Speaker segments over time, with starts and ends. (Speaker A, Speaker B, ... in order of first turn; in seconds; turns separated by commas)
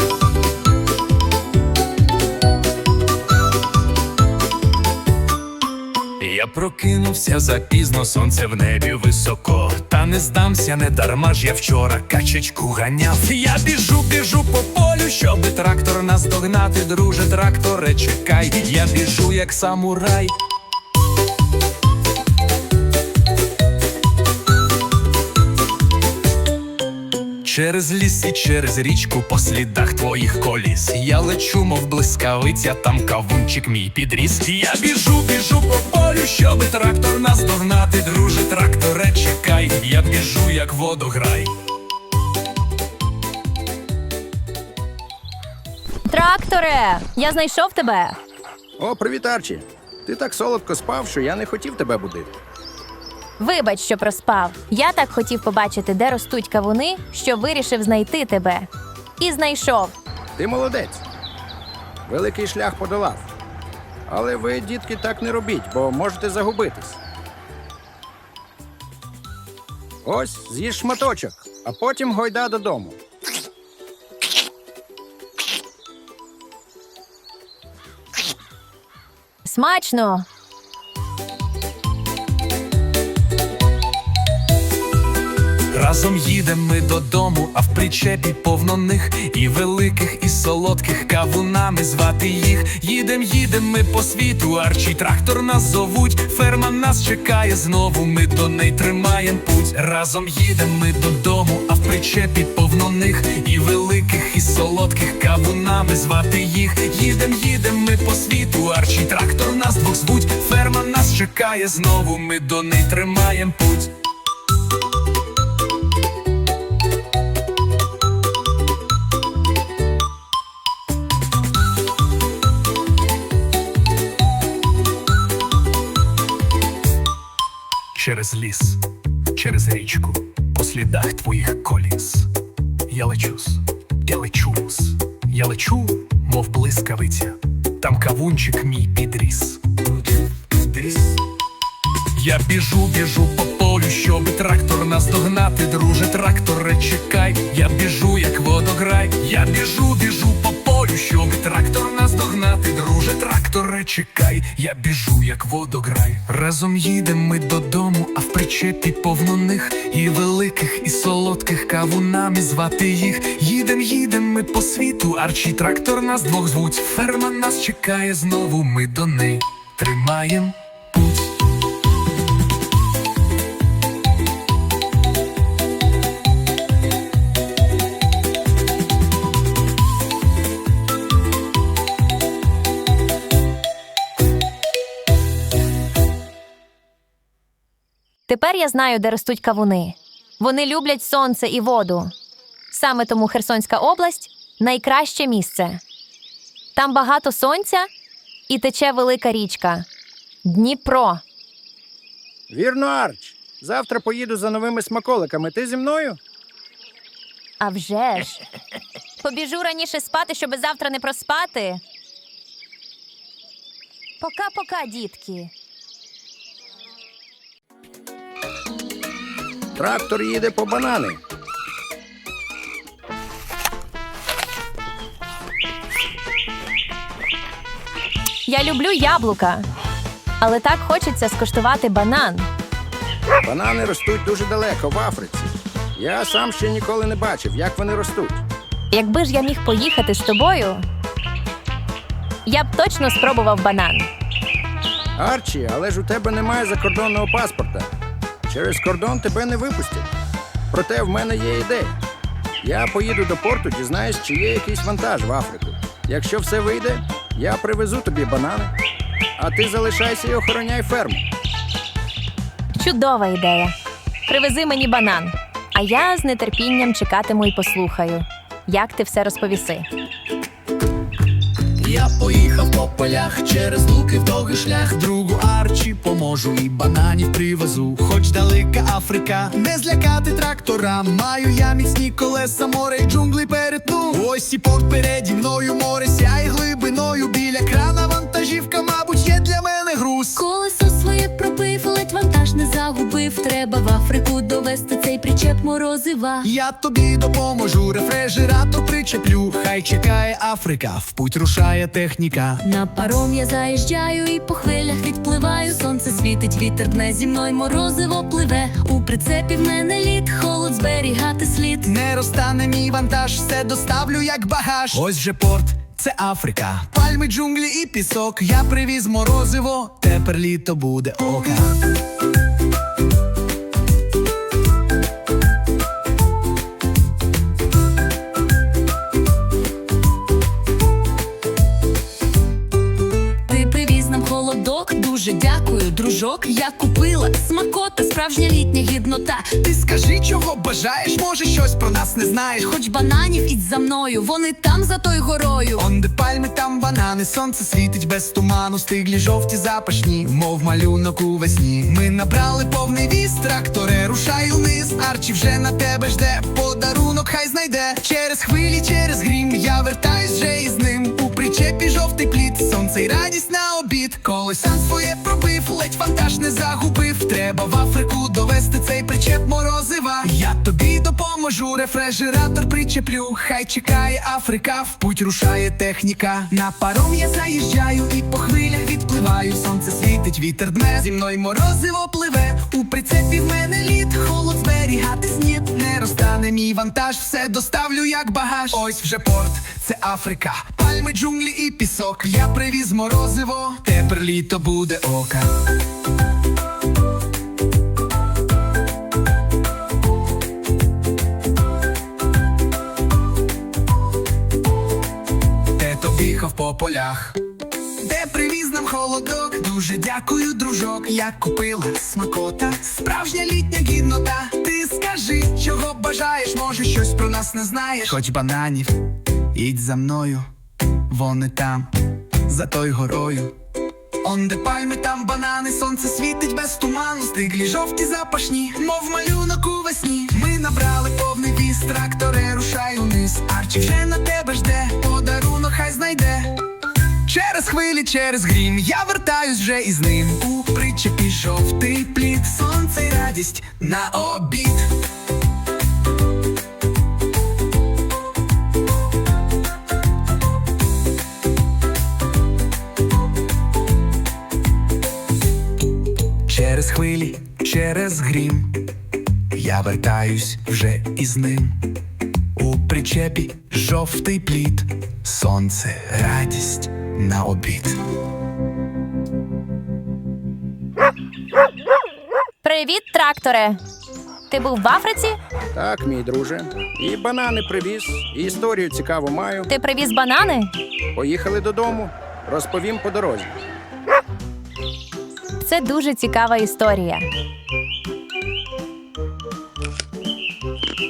Speaker A: 6.2-20.3, Speaker A: 27.4-41.5, Speaker B: 46.1-48.2, Speaker C: 48.8-52.3, Speaker B: 53.4-58.7, Speaker B: 59.2-59.9, Speaker C: 60.4-61.0, Speaker C: 62.1-63.3, Speaker C: 64.1-67.0, Speaker C: 70.0-73.0, Speaker B: 79.5-80.3, Speaker A: 85.7-113.9, Speaker A: 128.0-128.8, Speaker A: 129.4-132.3, Speaker A: 132.9-139.6, Speaker A: 140.8-141.2, Speaker A: 142.2-170.4, Speaker B: 188.3-192.1, Speaker B: 192.7-195.8, Speaker B: 196.8-197.9, Speaker B: 198.5-199.9, Speaker B: 200.4-201.2, Speaker C: 202.5-206.2, Speaker B: 207.6-208.4, Speaker B: 209.2-211.8, Speaker B: 214.2-215.5, Speaker C: 219.8-221.2, Speaker B: 228.5-229.7, Speaker B: 230.4-232.5, Speaker C: 233.4-238.4, Speaker B: 238.9-240.8, Speaker B: 242.5-244.1, Speaker C: 245.2-247.9, Speaker C: 248.4-250.1, Speaker C: 250.7-252.0, Speaker C: 252.6-258.7, Speaker C: 259.4-261.3, Speaker B: 262.8-263.7, Speaker B: 264.3-269.9, Speaker D: 271.8-290.4, Speaker E: 290.4-296.5, Speaker D: 296.4-302.6, Speaker E: 302.6-311.9, Speaker D: 311.8-321.8, Speaker E: 333.5-339.5, Speaker D: 339.6-342.7, Speaker E: 342.7-345.8, Speaker D: 345.8-395.5, Speaker D: 405.8-407.4, Speaker D: 408.0-418.9, Speaker D: 419.6-420.4, Speaker D: 421.1-421.9, Speaker D: 422.5-423.5, Speaker D: 424.2-436.6, Speaker D: 437.3-444.9, Speaker D: 456.5-458.8, Speaker D: 459.5-461.8, Speaker D: 462.6-468.0, Speaker B: 472.6-473.8, Speaker B: 474.5-475.4, Speaker C: 475.8-479.7, Speaker B: 479.7-480.7, Speaker C: 481.2-483.6, Speaker B: 485.6-487.3